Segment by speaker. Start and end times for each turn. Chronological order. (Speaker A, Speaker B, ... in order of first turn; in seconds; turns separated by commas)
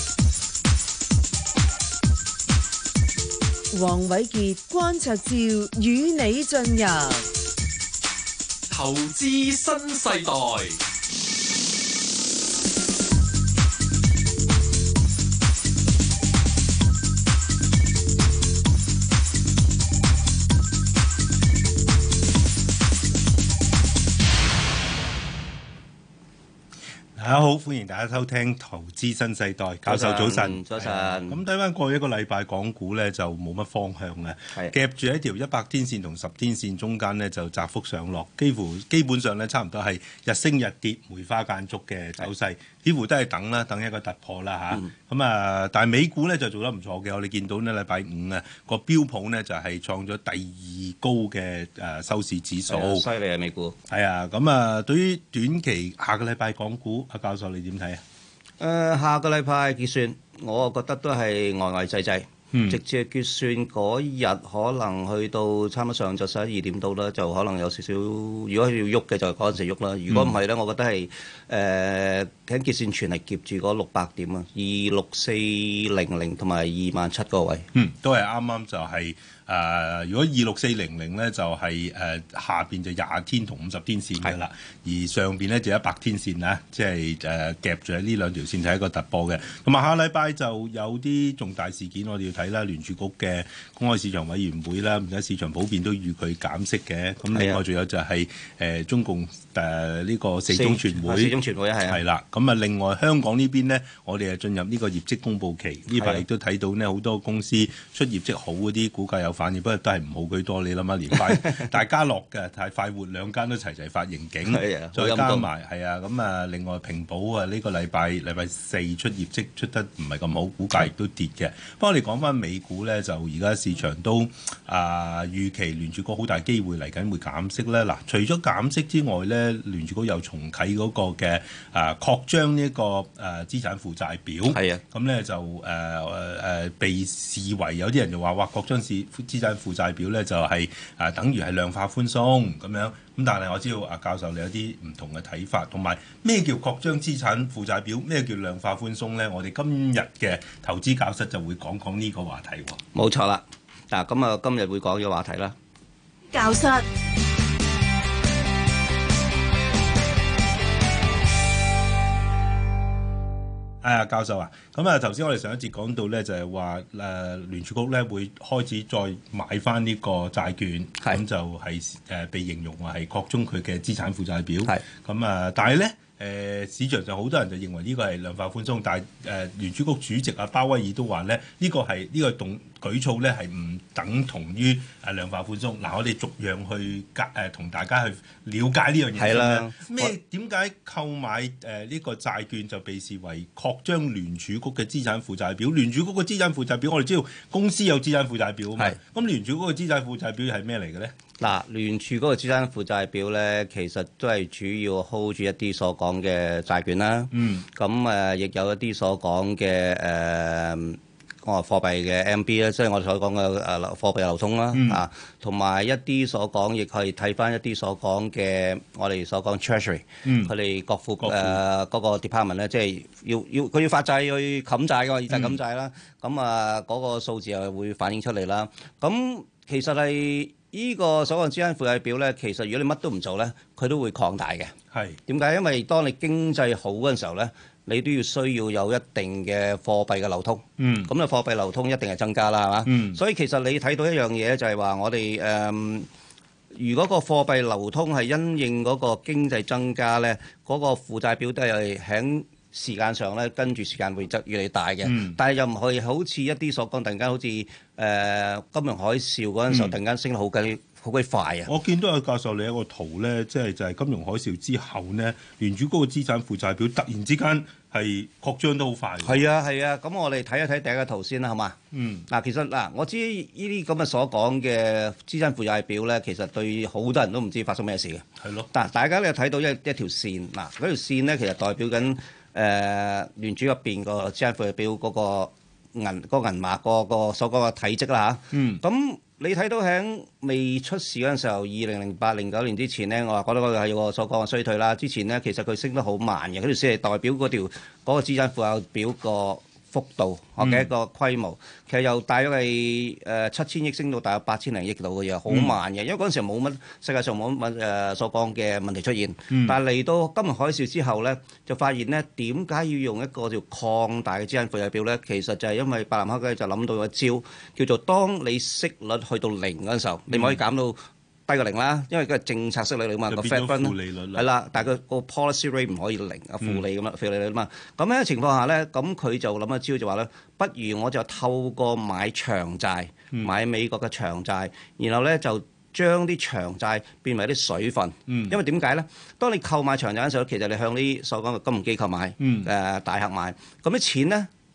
Speaker A: 3.7-7.3, Speaker B: 8.7-10.8, Speaker C: 27.1-53.0, Speaker D: 29.8-31.4, Speaker D: 52.7-53.8, Speaker C: 53.9-58.0, Speaker D: 58.6-77.7, Speaker C: 62.5-62.8, Speaker C: 70.1-70.3, Speaker C: 77.7-101.3, Speaker D: 97.3-97.6, Speaker D: 100.5-102.0, Speaker C: 101.8-152.8, Speaker D: 105.9-106.2, Speaker D: 111.1-111.7, Speaker D: 114.5-115.5, Speaker D: 134.4-134.8, Speaker D: 152.9-155.6, Speaker A: 156.4-156.8, Speaker C: 163.8-201.1, Speaker D: 189.2-190.1, Speaker D: 201.4-234.7, Speaker C: 207.3-207.7, Speaker C: 214.7-215.0, Speaker C: 220.2-220.5, Speaker C: 221.2-221.6, Speaker C: 225.3-225.6, Speaker C: 234.9-235.2, Speaker D: 235.3-246.1, Speaker C: 240.8-241.1, Speaker C: 242.8-243.2, Speaker D: 246.7-261.7, Speaker C: 255.0-255.4, Speaker C: 259.7-259.9, Speaker C: 261.6-269.4, Speaker D: 269.2-271.8, Speaker C: 271.9-272.3, Speaker D: 272.3-344.5, Speaker C: 278.4-278.7, Speaker C: 288.5-288.8, Speaker C: 300.6-300.9, Speaker C: 305.5-305.8, Speaker C: 309.5-309.8, Speaker C: 320.3-320.6, Speaker C: 323.3-324.5, Speaker C: 338.3-338.6, Speaker C: 342.4-342.7